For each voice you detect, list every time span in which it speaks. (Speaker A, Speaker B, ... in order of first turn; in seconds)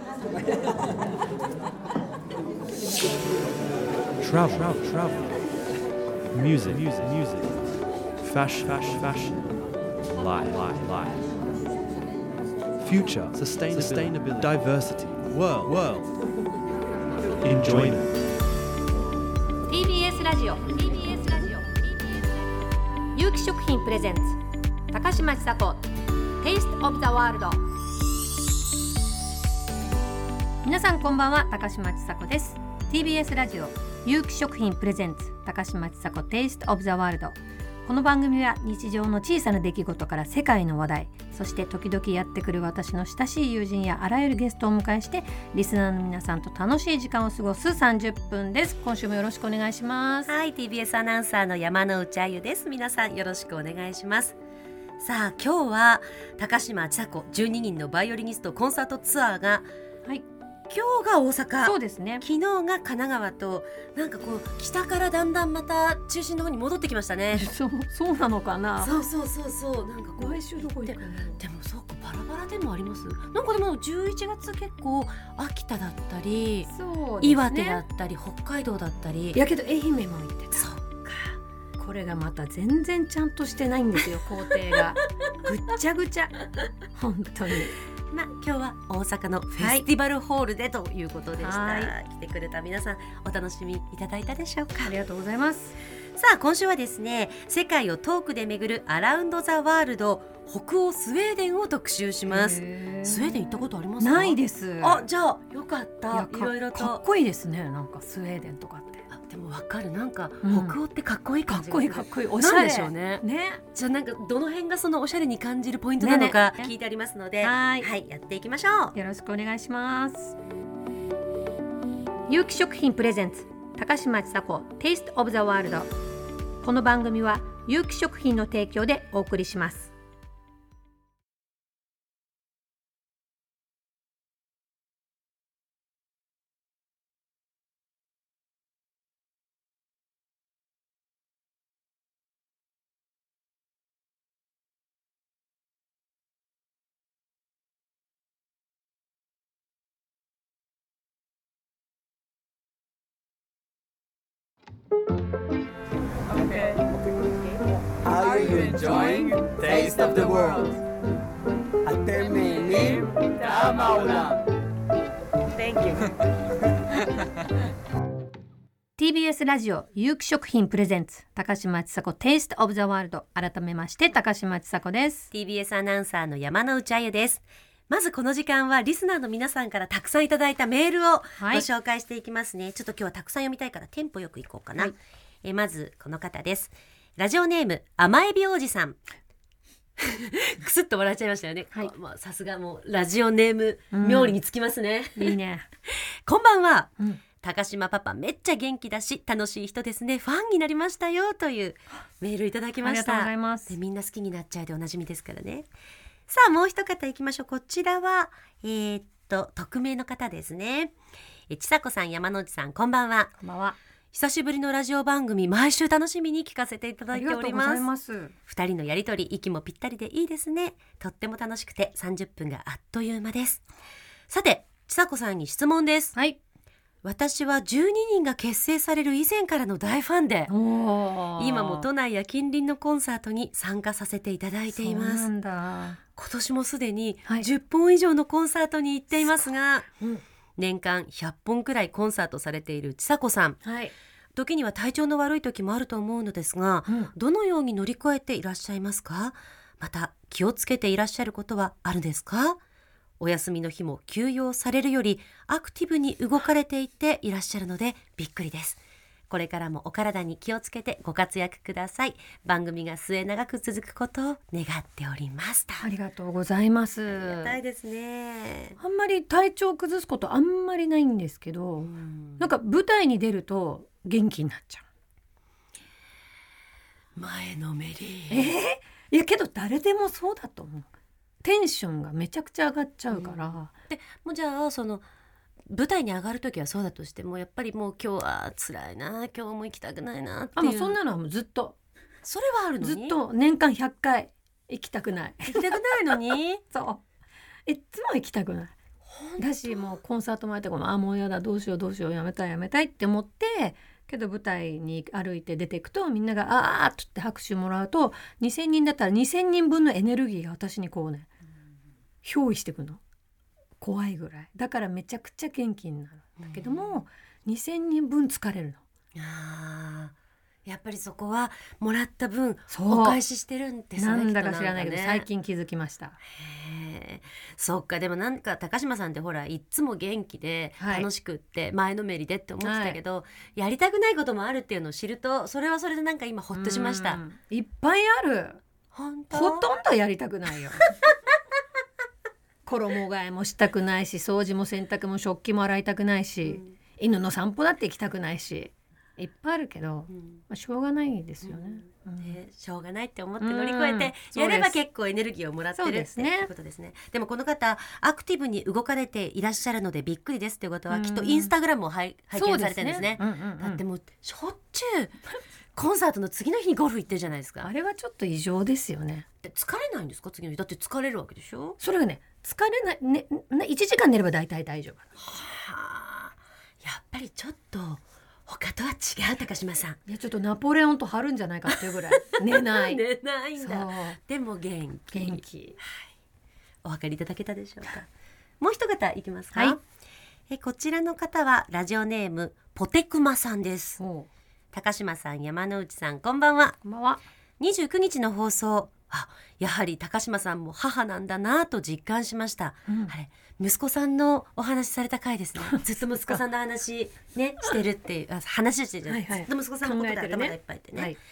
Speaker A: 4.2-5.4, 6.3-7.7, 8.2-9.5, 10.1-11.3, 12.8-16.2, 17.4-18.1
Speaker B: 19.7-21.9, 23.1-25.9, 26.4-27.6, 30.6-50.3, 61.6-62.2, 67.3-68.9, 70.2-71.4, 76.7-77.8, 79.3-80.7, 81.8-87.8, 89.6-89.9, 91.4-91.9, 94.8-95.8, 102.3-105.0, 106.1-109.0, 110.4-110.8, 111.5-113.6, 116.0-116.7, 117.4-117.9, 118.9-120.3, 122.3-125.9, 126.6-129.9, 169.0-175.3, 181.4-181.6, 193.9-194.3, 195.2-195.7, 202.8-203.7, 213.4-213.8, 217.1-218.3, 230.5-231.9, 234.7-236.0, 243.6-243.9, 265.8-267.6, 268.8-274.8, 278.3-280.9, 281.4-283.7, 290.6-291.8, 292.8-296.2, 296.7-297.0, 297.6-298.7, 299.4-311.3, 312.2-313.0, 313.8-318.8, 322.7-323.2, 323.9-326.2, 330.8-331.1, 332.6-333.0, 336.5-338.6, 339.3-340.9, 342.6-352.4, 353.4-354.7, 355.8-356.5, 360.9-361.5, 362.3-363.8, 367.6-369.2, 371.8-375.1, 380.1-383.0, 383.6-384.2, 385.1-385.8, 394.0-394.3, 396.8-397.2, 402.9-403.1, 405.6-406.4, 409.1-411.2
Speaker C: 50.3-54.4, 55.0-59.7, 60.7-67.5, 68.8-76.7, 77.2-79.4, 80.5-81.4, 88.1-94.9, 96.2-107.0, 109.1-118.9, 175.3-189.0, 190.0-195.4, 195.9-205.7, 206.3-210.9, 211.5-213.4, 214.1-217.9, 218.5-223.6, 224.3-226.1, 227.0-230.5, 231.4-235.3, 236.2-239.9, 240.6-243.6, 244.3-252.6, 253.2-265.8, 267.1-268.8, 271.8-272.4, 277.1-278.5, 283.1-285.0, 285.7-291.0, 292.2-293.1, 295.5-296.6, 299.1-299.8, 316.4-317.0, 319.1-325.2, 326.4-337.2, 338.9-339.7, 346.4-346.7, 350.1-350.4, 351.4-365.2, 365.7-367.7, 369.4-371.8, 375.2-380.0, 381.7-385.4, 386.8-388.1, 388.6-389.8, 390.5-394.0, 394.7-396.8, 397.6-411.1
Speaker D: 156.4-157.2, 158.0-160.8, 161.8-164.4, 165.6-166.1